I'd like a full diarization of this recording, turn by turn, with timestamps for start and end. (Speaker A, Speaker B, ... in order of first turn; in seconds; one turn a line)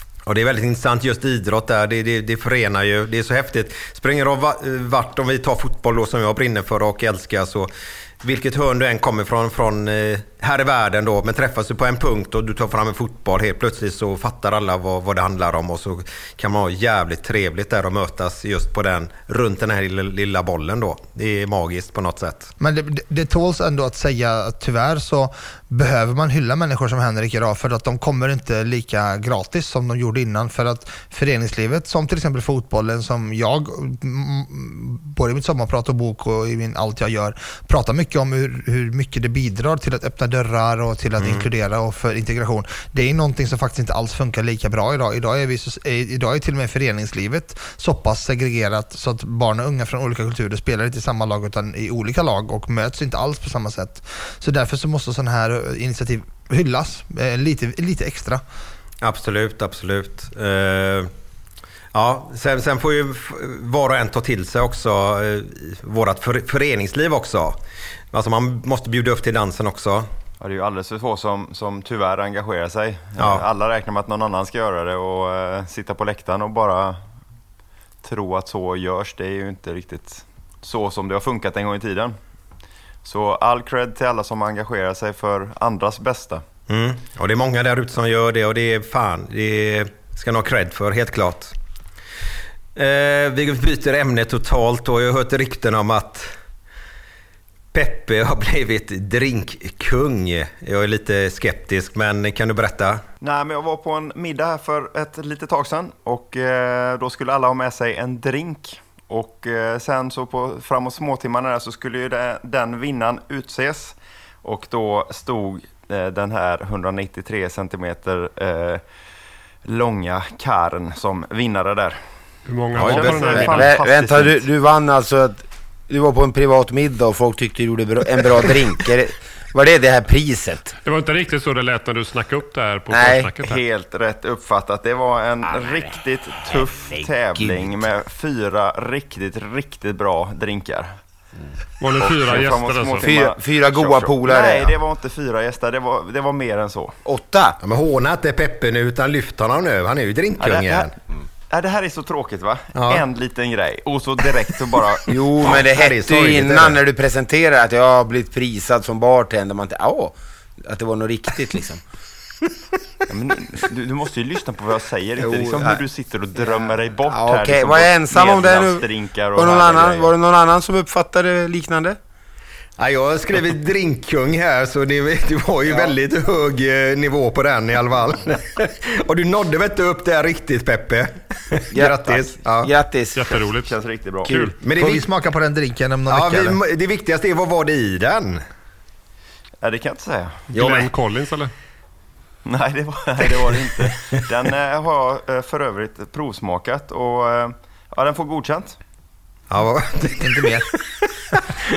Speaker A: 0.3-22.5
Speaker B: 22.6-58.4
Speaker A: 41.2-41.5
Speaker A: 59.0-61.1
Speaker A: 61.9-67.6
Speaker A: 68.1-70.1
Speaker C: 70.4-77.0
Speaker A: 73.2-73.4
Speaker C: 78.0-82.2
Speaker C: 83.0-86.4
Speaker A: 86.7-91.5
Speaker A: 92.8-96.3
Speaker A: 97.7-103.0
Speaker C: 103.2-118.8
Speaker C: 119.7-122.0
Speaker D: 122.5-123.9
Speaker C: 122.7-124.3
Speaker A: 122.8-123.2
Speaker E: 123.1-130.8
Speaker D: 130.8-133.6
Speaker E: 132.9-133.3
Speaker C: 133.4-140.9
Speaker E: 135.4-137.8
Speaker D: 141.8-143.1
Speaker C: 142.0-147.0
Speaker E: 143.0-144.7
Speaker E: 147.1-147.6
Speaker A: 147.6-150.9
Speaker C: 150.4-150.9
Speaker C: 151.5-155.1
Speaker A: 152.8-153.0
Speaker E: 155.1-161.8
Speaker A: 155.5-156.8
Speaker C: 163.1-170.1
Speaker E: 165.2-165.8
Speaker E: 166.4-168.8
Speaker E: 169.3-172.0
Speaker A: 172.8-182.7
Speaker E: 181.7-183.5
Speaker D: 183.2-183.7
Speaker C: 183.7-184.3
Speaker D: 184.2-184.5
Speaker E: 184.3-184.5
Speaker A: 184.6-185.1
Speaker B: 184.7-186.6
Speaker A: 186.1-188.4
Speaker C: 189.6-190.4
Speaker D: 190.5-191.5
Speaker A: 190.5-190.9
Speaker C: 192.5-198.8
Speaker A: 199.5-200.7
Speaker B: 200.2-200.7